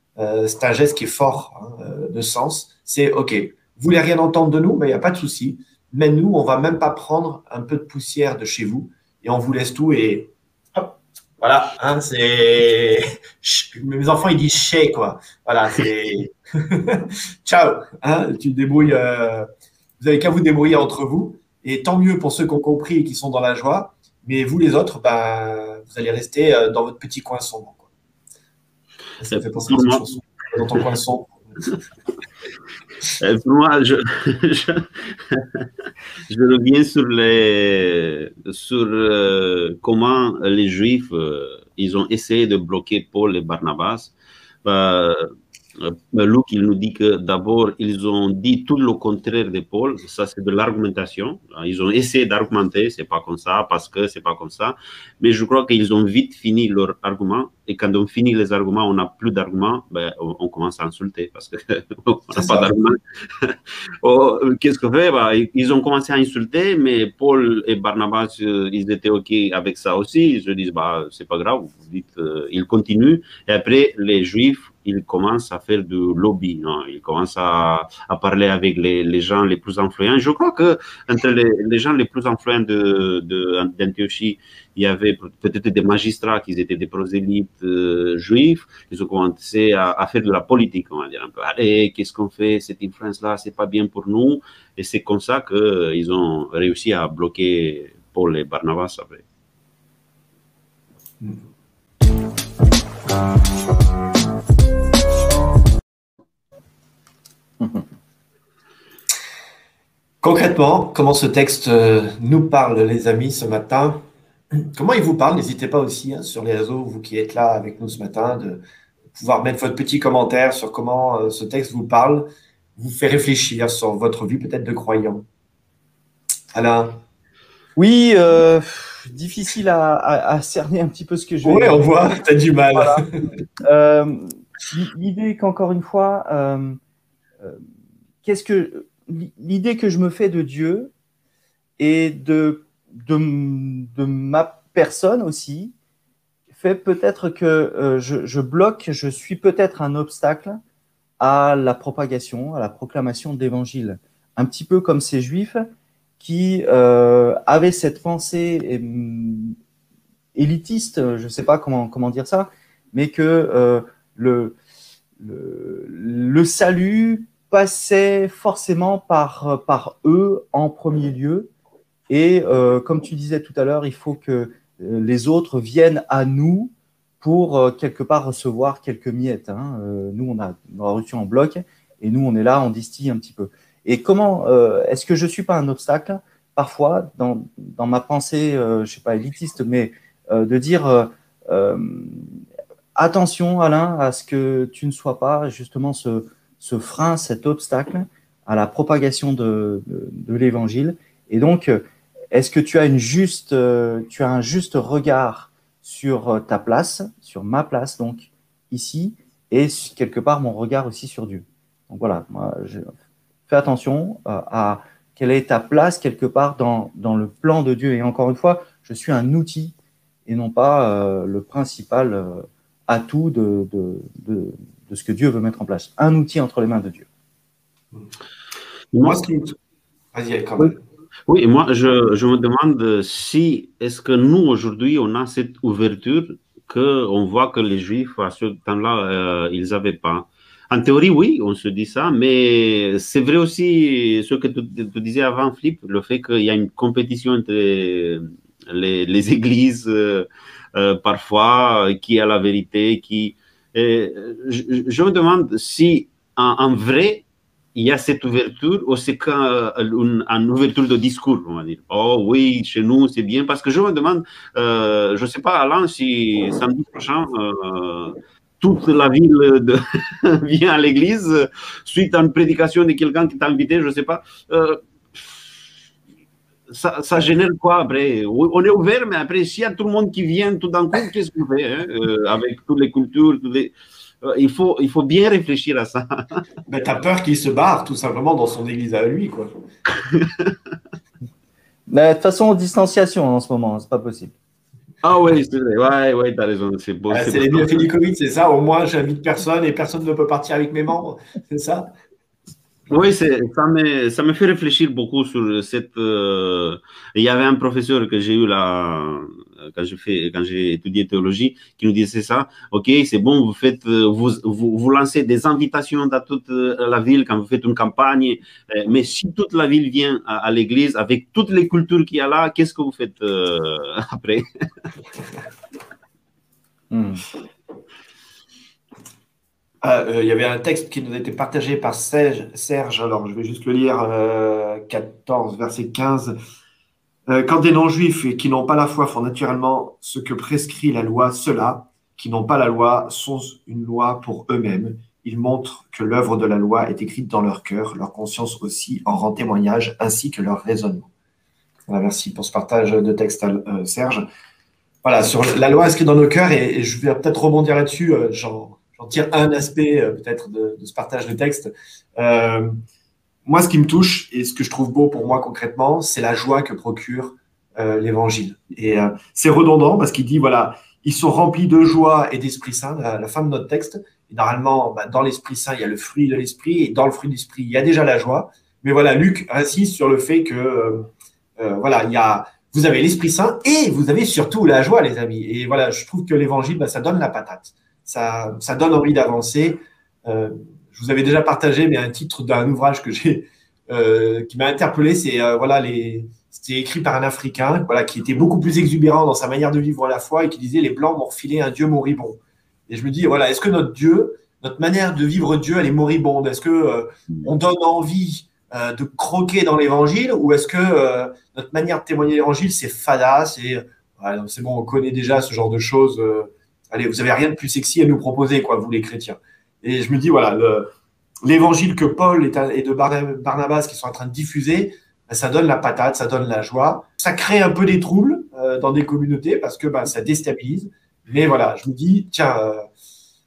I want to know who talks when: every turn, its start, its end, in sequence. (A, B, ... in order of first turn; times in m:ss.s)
0:00.2-0:19.5 A
0:20.0-0:27.9 A
0:29.2-0:31.8 A
0:29.3-0:30.1 B
0:33.2-0:35.6 B
0:36.3-1:39.2 B
1:02.3-1:02.7 A
1:47.6-1:47.9 C
1:50.2-1:58.6 A
1:59.1-2:05.2 A
2:06.5-2:07.0 A
2:07.8-2:11.9 C
2:11.4-2:13.2 A
2:12.7-2:13.0 C
2:13.6-2:16.8 C
2:18.2-2:20.9 C
2:21.8-2:25.7 C
2:26.5-2:30.6 C
2:31.2-2:35.7 C
2:36.2-2:39.5 C
2:40.3-2:44.6 C
2:45.2-2:51.5 C
2:52.1-3:12.4 C
3:13.0-3:32.9 C
3:33.5-3:39.7 C
3:40.2-3:47.1 C
3:48.9-3:49.2 B
3:49.0-3:49.6 A
3:50.1-3:50.8 A
3:51.3-4:17.2 B
4:17.7-4:35.5 B
4:36.7-4:46.4 B
4:46.7-4:49.5 A
4:50.1-4:50.5 B
4:51.9-4:54.4 C
4:55.0-4:57.8 B
4:57.1-5:01.9 A
5:02.9-5:24.4 B
5:26.9-5:27.2 C
5:29.8-5:36.3 A
5:37.3-5:51.1 A
5:51.9-5:54.2 A
5:55.0-6:02.7 A
6:03.4-7:00.9 A
7:01.4-7:12.8 A